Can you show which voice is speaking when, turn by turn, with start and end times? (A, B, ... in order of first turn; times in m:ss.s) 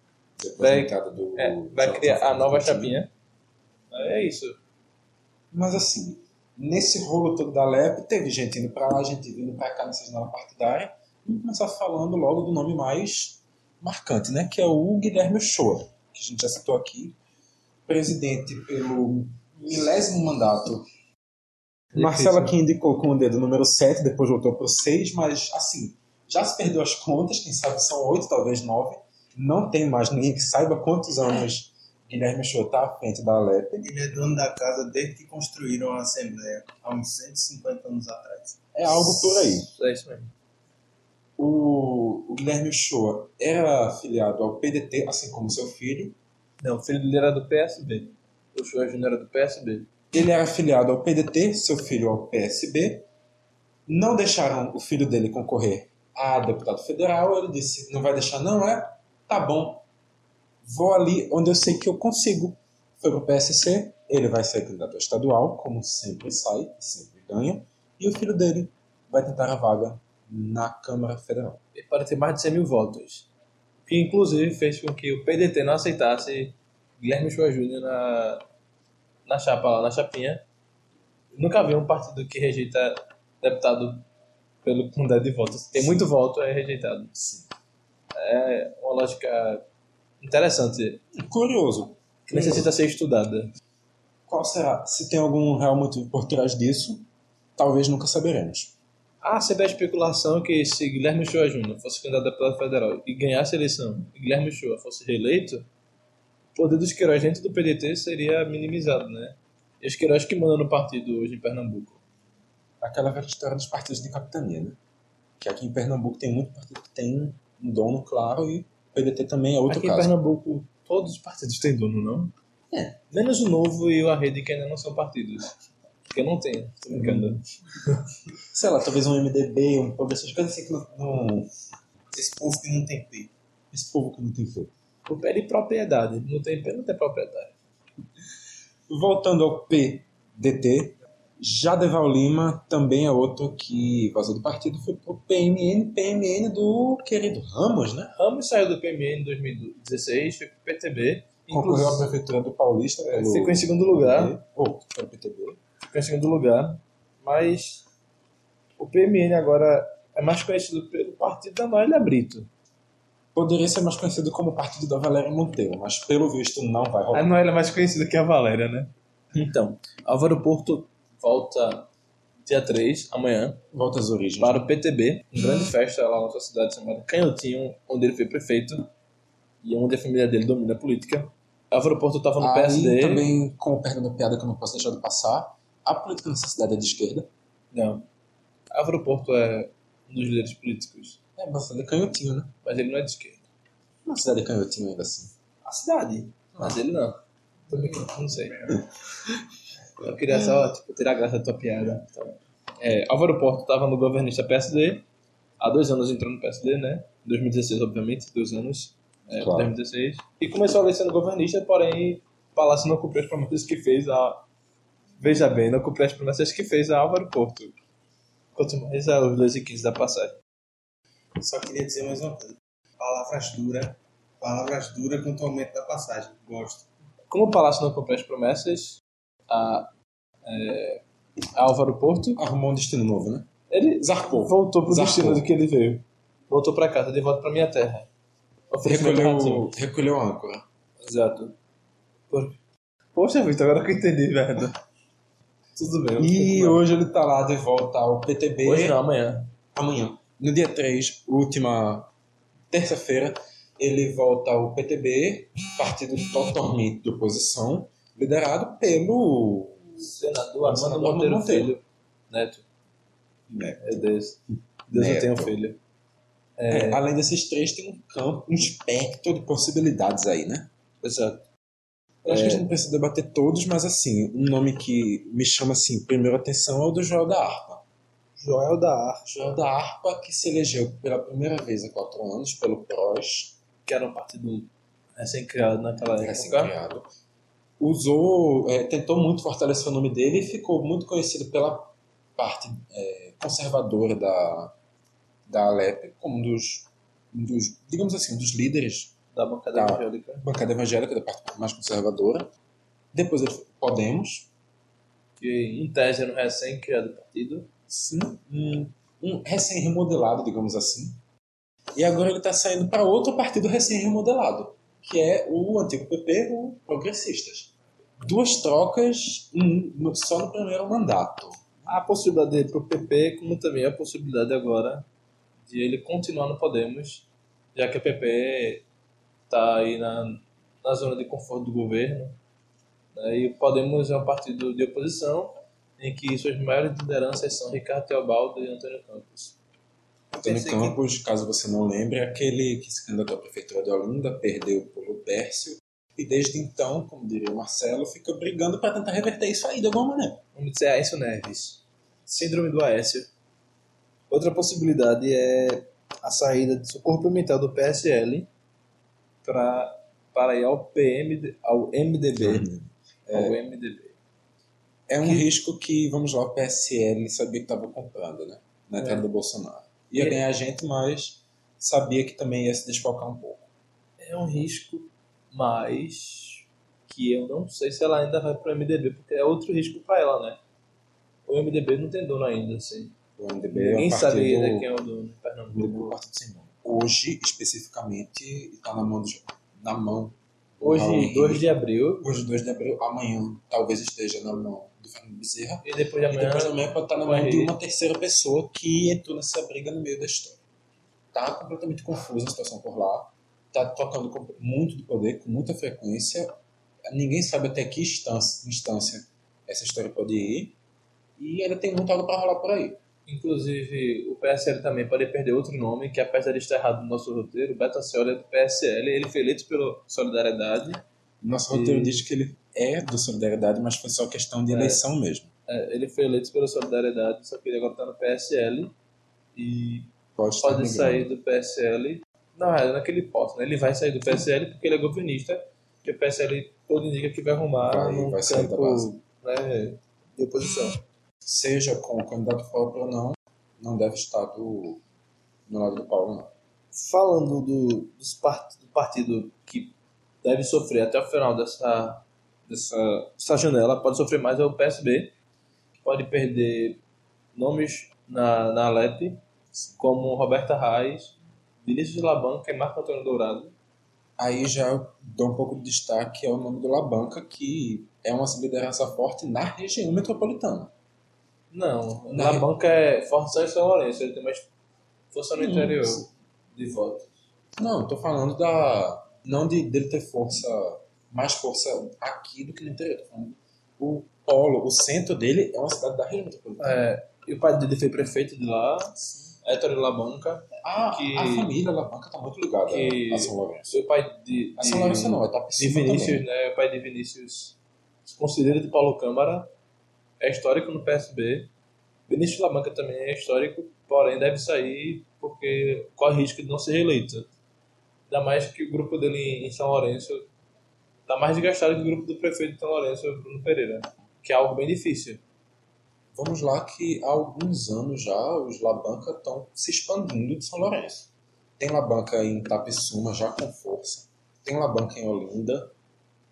0:00.4-0:03.0 A
0:00.6-0:03.1 B
0:03.9-0:04.6 B
0:05.5-0:17.2 A
0:17.9-0:20.9 A
0:21.9-0:22.5 B
0:22.0-0:33.9 A
0:33.8-0:38.6 C
0:38.7-0:39.7 A
0:39.6-0:40.3 B
0:41.4-0:46.2 A
0:46.6-0:49.9 B
0:50.1-0:53.1 A
0:53.9-0:59.8 A
1:00.6-1:11.6 A
1:11.7-1:13.3 B
1:13.9-1:18.4 B
1:19.3-1:20.4 B
1:21.3-1:24.1 B
1:24.6-1:27.1 B
1:25.7-1:26.0 A
1:27.2-1:27.5 A
1:28.2-1:29.6 B
1:30.2-1:31.0 B
1:31.1-1:32.7 A
1:32.3-1:33.5 B
1:34.3-1:38.8 A
1:39.2-1:45.7 B
1:46.6-1:52.0 B
1:52.8-1:54.8 A
1:55.4-2:00.1 A
1:59.7-2:02.3 B
2:02.7-2:03.0 A
2:03.1-2:05.5 B
2:06.1-2:08.0 B
2:06.9-2:07.3 A
2:08.5-2:11.5 A
2:12.1-2:13.3 C
2:13.7-2:14.7 A
2:15.1-2:17.5 B
2:18.9-2:28.1 A
2:28.2-2:32.1 B
2:31.5-2:35.6 A
2:33.1-2:34.4 B
2:35.8-2:37.8 B
2:38.8-2:42.5 B
2:43.4-2:47.3 A
2:47.1-2:51.9 B
2:52.5-2:53.6 B
2:53.7-2:54.6 A
2:54.4-2:58.9 B
2:59.6-3:03.3 B
3:02.4-3:07.3 A
3:07.7-3:08.1 B
3:08.7-3:11.2 B
3:11.4-3:12.6 A
3:12.6-3:13.4 B
3:14.0-3:15.3 A
3:15.6-3:18.8 B
3:20.0-3:25.0 B
3:25.6-3:34.5 B
3:29.4-3:29.7 A
3:35.2-3:37.8 B
3:38.6-3:40.4 B
3:41.4-3:46.9 C
3:47.3-3:49.9 B
3:50.4-3:51.0 B
3:51.6-3:52.4 B
3:52.4-3:55.5 A
3:53.7-3:58.1 B
3:58.7-3:59.7 B
3:58.8-4:00.6 A
4:01.0-4:01.6 B
4:02.3-4:02.6 B
4:03.2-4:04.8 B
4:05.8-4:06.8 B
4:06.2-4:09.0 A
4:08.6-4:09.5 B
4:09.7-4:12.1 A
4:12.7-4:21.7 A
4:20.0-4:22.6 B
4:23.5-4:24.1 A
4:23.8-4:25.8 B
4:24.9-4:25.6 A
4:26.6-4:27.0 B
4:26.7-4:30.7 A
4:31.0-4:31.5 B
4:32.2-4:37.8 A
4:32.3-4:32.7 B
4:38.4-4:39.3 B
4:39.3-4:43.6 A
4:43.9-4:46.8 B
4:46.0-4:47.1 A
4:47.8-4:54.8 A
4:55.5-4:59.2 A
4:59.4-5:00.5 B
4:59.7-5:02.5 A
5:03.1-5:04.5 A
5:05.4-5:07.7 B
5:07.9-5:11.2 A
5:12.0-5:22.0 A
5:21.9-5:25.1 B
5:25.7-5:28.8 B
5:29.5-5:32.4 B
5:33.2-5:39.6 B
5:40.4-5:40.9 C
5:40.4-5:50.4 A
5:50.6-5:53.3 B
5:54.3-5:58.5 B
5:59.4-6:02.7 B
6:02.4-6:03.6 A
6:03.3-6:04.2 B
6:05.1-6:13.6 A
6:05.2-6:05.5 B
6:09.0-6:09.2 B
6:10.2-6:10.4 B
6:14.2-6:20.6 B
6:21.5-6:23.2 B
6:23.4-6:24.9 A
6:23.7-6:26.2 B
6:25.7-6:31.7 A
6:30.8-6:32.3 B
6:32.2-6:40.6 A
6:35.8-6:37.7 B
6:41.3-6:46.5 A
6:47.1-6:50.8 A
6:51.4-6:53.0 A
6:53.3-7:01.0 B
7:01.4-7:05.5 A
7:01.7-7:02.2 B
7:04.7-7:05.0 B
7:05.7-7:08.9 B
7:09.6-7:10.1 B
7:10.4-7:11.3 A
7:10.6-7:21.0 B
7:17.8-7:19.1 A
7:21.4-7:25.0 A
7:25.7-7:26.5 A
7:26.9-7:35.3 B
7:36.0-7:37.0 B
7:37.6-7:39.4 B
7:40.0-7:43.7 B
7:44.4-7:50.9 A
7:51.7-7:54.7 B
7:52.3-7:52.7 A
7:55.3-7:57.3 B
7:55.6-7:56.3 A
7:57.8-8:07.0 A
8:06.8-8:11.7 B
8:10.8-8:14.0 A
8:12.9-8:19.7 B
8:14.8-8:16.5 A
8:20.4-8:21.7 B
8:22.3-8:27.5 B
8:28.3-8:30.5 B
8:31.3-8:35.4 B
8:36.4-8:45.9 A